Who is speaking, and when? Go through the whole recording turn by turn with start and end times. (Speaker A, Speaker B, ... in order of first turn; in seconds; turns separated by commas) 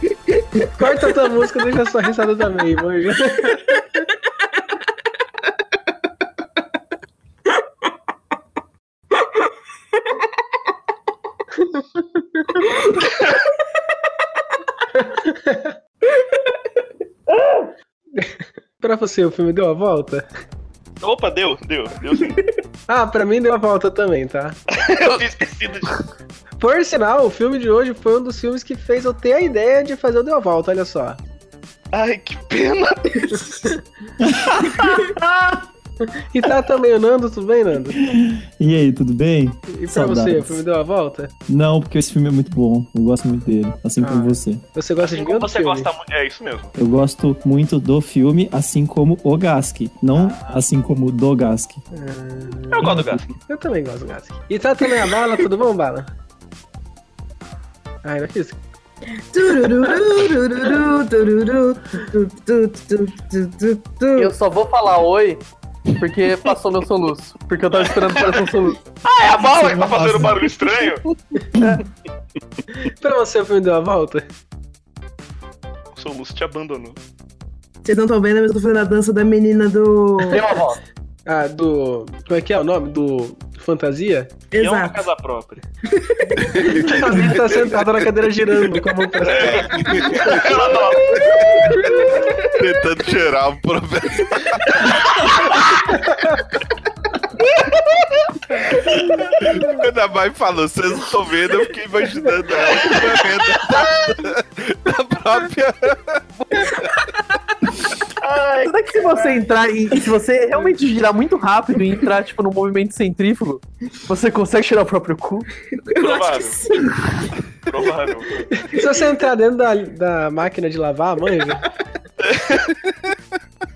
Speaker A: 0.6-0.9, Speaker B: 0.8-3.8, Speaker B: 15.0-15.7, Speaker B: 18.2-20.3, Speaker C: 21.0-22.5, Speaker B: 22.9-24.6, Speaker C: 24.7-26.0, Speaker B: 26.6-31.2, Speaker C: 31.9-33.7, Speaker D: 34.2-35.6, Speaker B: 36.1-38.0, Speaker D: 38.0-40.6, Speaker B: 39.7-41.3, Speaker D: 41.5-44.6, Speaker B: 44.0-45.9, Speaker C: 45.0-46.7, Speaker D: 46.8-51.8, Speaker C: 50.1-50.6, Speaker B: 51.9-52.9, Speaker C: 52.7-53.2, Speaker D: 52.8-53.3, Speaker B: 53.5-56.1, Speaker B: 58.0-58.6, Speaker A: 59.3-64.3, Speaker E: 64.2-68.8, Speaker C: 67.7-68.4, Speaker C: 69.0-71.0, Speaker D: 69.4-70.5, Speaker B: 72.8-74.2, Speaker C: 76.0-77.0, Speaker A: 77.8-80.4, Speaker E: 80.3-80.8, Speaker B: 81.2-84.4, Speaker A: 84.5-85.0, Speaker C: 84.5-85.6, Speaker A: 86.0-86.8, Speaker F: 86.4-88.6, Speaker B: 86.8-90.3, Speaker C: 89.2-91.2, Speaker F: 89.2-90.6, Speaker A: 90.6-92.7, Speaker F: 91.2-91.8, Speaker F: 92.4-95.0, Speaker F: 99.2-106.9, Speaker C: 102.6-103.8, Speaker C: 108.2-109.4, Speaker E: 108.6-115.5, Speaker A: 115.8-117.2, Speaker C: 116.0-116.6, Speaker C: 117.7-118.5, Speaker B: 118.6-121.7, Speaker C: 122.2-122.7